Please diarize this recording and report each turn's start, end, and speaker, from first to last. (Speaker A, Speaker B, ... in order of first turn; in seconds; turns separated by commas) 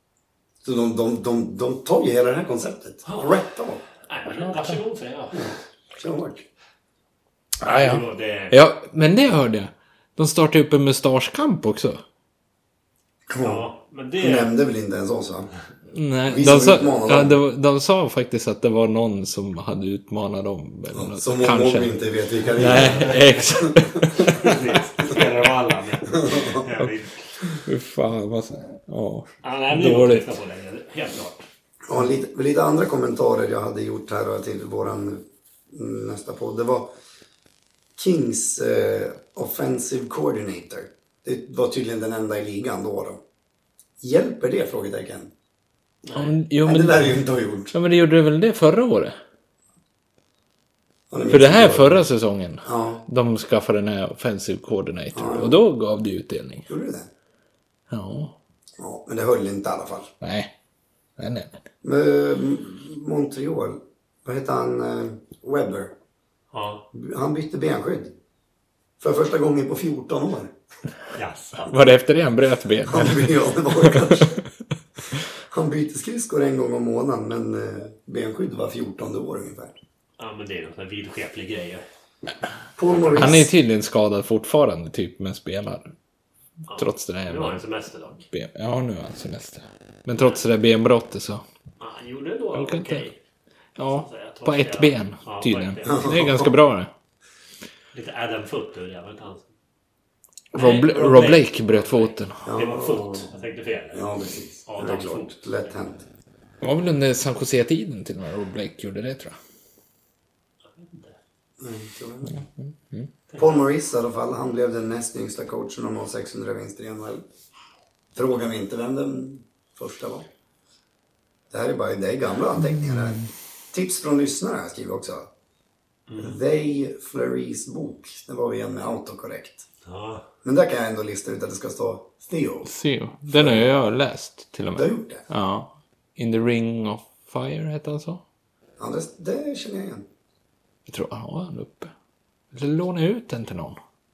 Speaker A: 0.6-3.8, Speaker B: 3.0-3.4, Speaker B: 4.0-5.5, Speaker C: 4.3-4.8, Speaker A: 5.3-6.5, Speaker C: 7.6-12.0, Speaker B: 7.6-8.6, Speaker A: 13.3-13.7, Speaker B: 13.4-14.5, Speaker A: 14.2-15.5, Speaker C: 15.9-22.0, Speaker A: 16.3-17.4, Speaker A: 20.9-24.3, Speaker C: 22.6-24.6, Speaker B: 22.9-23.2, Speaker B: 24.2-27.5, Speaker A: 26.1-26.7, Speaker C: 27.4-30.4, Speaker B: 29.4-31.5, Speaker A: 31.9-36.9, Speaker A: 38.0-43.2, Speaker A: 44.0-45.3, Speaker B: 46.0-46.4, Speaker C: 46.1-47.2, Speaker A: 46.6-47.7, Speaker C: 47.7-49.1, Speaker A: 51.1-52.0, Speaker C: 51.3-56.7, Speaker A: 52.6-53.0, Speaker A: 55.1-55.6, Speaker A: 56.7-57.1, Speaker C: 57.9-58.4, Speaker A: 58.8-60.1, Speaker C: 60.2-60.5, Speaker C: 61.2-61.6, Speaker A: 61.8-65.9, Speaker B: 66.5-66.8, Speaker A: 66.9-68.1, Speaker A: 69.0-70.5, Speaker B: 71.1-71.7, Speaker C: 71.6-74.2, Speaker A: 72.9-74.4, Speaker A: 75.5-79.8, Speaker B: 80.2-81.8, Speaker A: 82.8-83.5, Speaker B: 82.9-83.5, Speaker C: 83.1-85.9, Speaker B: 86.7-88.2, Speaker C: 86.8-87.6, Speaker C: 88.3-91.4, Speaker B: 90.2-90.4, Speaker B: 91.8-93.2, Speaker C: 92.5-93.0, Speaker C: 93.8-96.9, Speaker B: 93.9-96.1, Speaker A: 95.8-96.5, Speaker B: 97.9-99.5, Speaker C: 100.5-102.5, Speaker B: 100.5-104.1, Speaker A: 102.5-103.3, Speaker A: 103.9-106.0, Speaker B: 104.7-105.7, Speaker C: 106.6-109.4, Speaker B: 110.6-111.2, Speaker A: 111.6-112.4, Speaker C: 112.3-113.1, Speaker B: 113.3-113.7, Speaker A: 113.4-117.2, Speaker A: 118.1-120.2, Speaker A: 121.5-125.3, Speaker C: 122.8-123.3, Speaker B: 126.1-126.4, Speaker A: 126.2-129.7, Speaker B: 129.8-130.2, Speaker A: 130.4-132.7, Speaker C: 132.6-138.2, Speaker A: 133.3-133.7, Speaker A: 134.8-135.2, Speaker A: 138.8-140.0, Speaker C: 140.9-141.9, Speaker C: 142.5-143.8